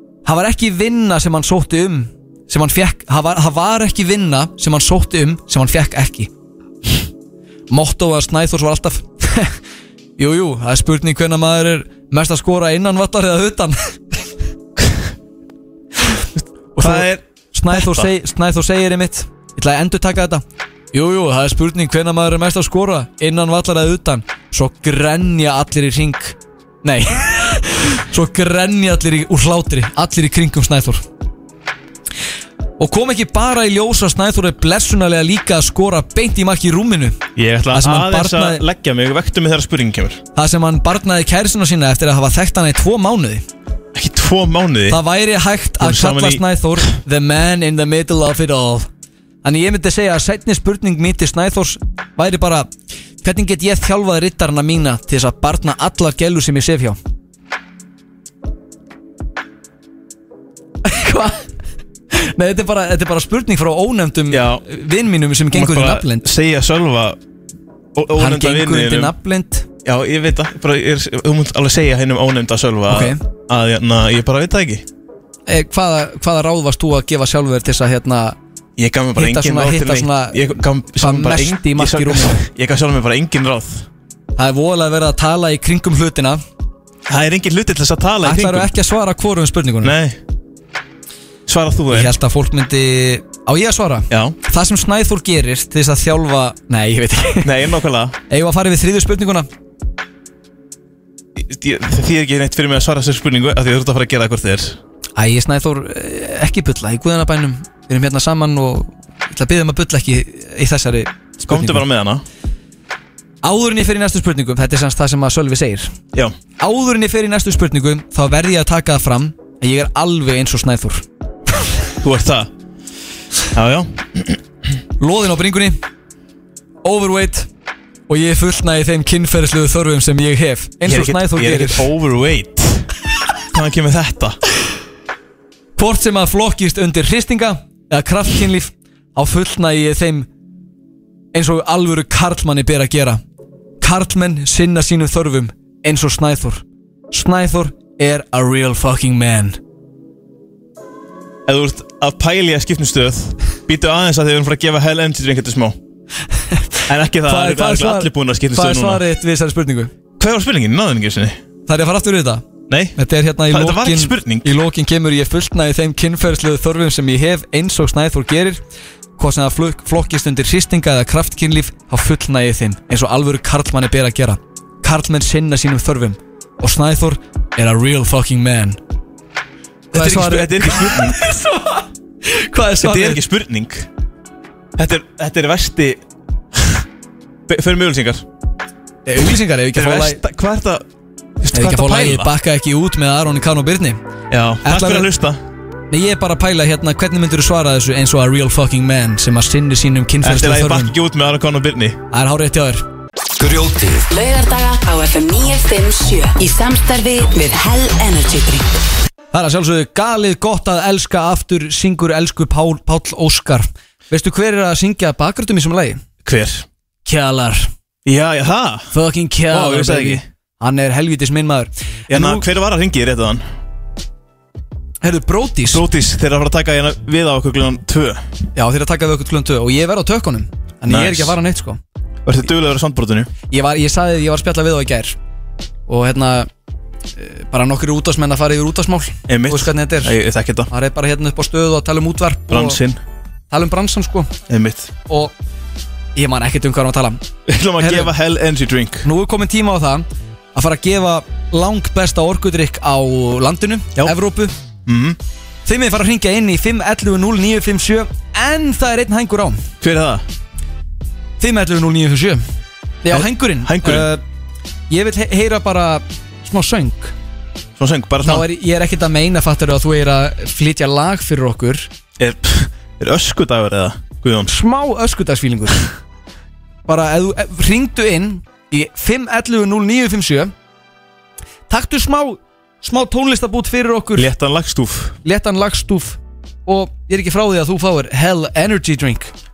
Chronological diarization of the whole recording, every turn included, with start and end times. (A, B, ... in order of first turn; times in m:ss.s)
0:00.2-0:06.3 A
0:07.7-0:09.6 A
0:10.2-0:14.0 A
0:16.4-0:18.1 B
0:16.8-0:31.0 A
0:32.8-0:37.2 A
0:37.4-0:40.2 B
0:37.7-0:38.6 A
0:40.4-0:43.4 A
0:43.9-0:45.0 B
0:44.9-0:48.9 A
0:45.8-0:46.8 B
0:49.4-0:52.7 A
0:53.2-0:57.0 A
1:00.8-1:01.5 A
1:02.1-1:06.3 A
1:04.3-1:04.6 B
1:05.5-1:07.2 B
1:08.0-1:09.1 B
1:08.2-1:09.7 A
1:09.8-1:14.8 B
1:12.9-1:13.2 A
1:15.5-1:18.4 A
1:18.8-1:23.9 B
1:19.2-1:22.5 A
1:24.4-1:26.4 A
1:27.1-1:28.7 B
1:28.2-1:30.0 A
1:29.8-1:30.2 B
1:31.5-1:32.2 B
1:31.9-1:37.5 A
1:34.1-1:34.4 B
1:37.4-1:38.2 B
1:38.3-1:39.5 A
1:41.4-1:44.8 B
1:45.2-1:51.8 A
1:51.5-1:52.2 B
1:53.4-1:55.9 A
1:56.6-2:01.0 A
2:02.0-2:02.5 B
2:03.5-2:04.4 B
2:05.0-2:05.8 A
2:06.8-2:07.5 A
2:08.1-2:11.9 A
2:10.8-2:12.9 B
2:13.5-2:14.4 B
2:15.8-2:20.3 A
2:21.3-2:23.2 A
2:23.8-2:29.6 A
2:31.5-2:35.8 B
2:36.5-2:39.9 A
2:36.9-2:39.0 B
2:40.2-2:41.4 B
2:41.7-2:42.4 A
2:42.7-2:43.0 B
2:43.0-2:48.6 A
2:43.5-2:44.5 B
2:49.2-2:58.8 A
2:59.9-3:01.2 B
2:59.9-3:03.2 A
3:02.8-3:03.9 B
3:04.8-3:06.0 B
3:07.5-3:08.3 B
3:09.1-3:10.2 A
3:09.7-3:10.8 B
3:11.4-3:12.3 B
3:11.5-3:14.0 A
3:14.3-3:15.4 B
3:14.6-3:15.1 A
3:15.9-3:20.9 A
3:20.2-3:22.0 B
3:22.1-3:22.8 A
3:23.4-3:28.7 C
3:29.3-3:36.0 A
3:36.2-3:36.7 B
3:37.1-3:37.7 A
3:38.0-3:38.9 B
3:38.9-3:42.4 A
3:39.5-3:40.2 B
3:42.1-3:43.4 B
3:45.0-3:45.8 A
3:45.7-3:48.2 B
3:48.6-3:51.8 A
3:50.9-3:51.4 B
3:52.2-3:53.3 B
3:53.5-3:55.2 A
3:55.9-3:56.5 A
3:57.2-4:00.2 A
3:59.3-4:00.7 B
4:00.7-4:02.8 A
4:02.5-4:03.0 B
4:03.5-4:04.3 A
4:04.5-4:04.9 B
4:05.1-4:05.3 A
4:06.2-4:07.2 A
4:07.5-4:09.1 B
4:07.8-4:08.1 A
4:09.0-4:14.5 A
4:14.9-4:15.2 B
4:15.7-4:19.6 A
4:19.8-4:20.2 B
4:21.4-4:22.4 A
4:23.0-4:24.2 A
4:23.1-4:24.1 B
4:24.9-4:27.1 A
4:27.8-4:28.5 B
4:28.2-4:31.9 A
4:32.2-4:34.5 B
4:34.5-4:35.9 A
4:36.9-4:40.5 A
4:41.7-4:44.3 A
4:44.2-4:45.2 B
4:45.2-4:49.3 A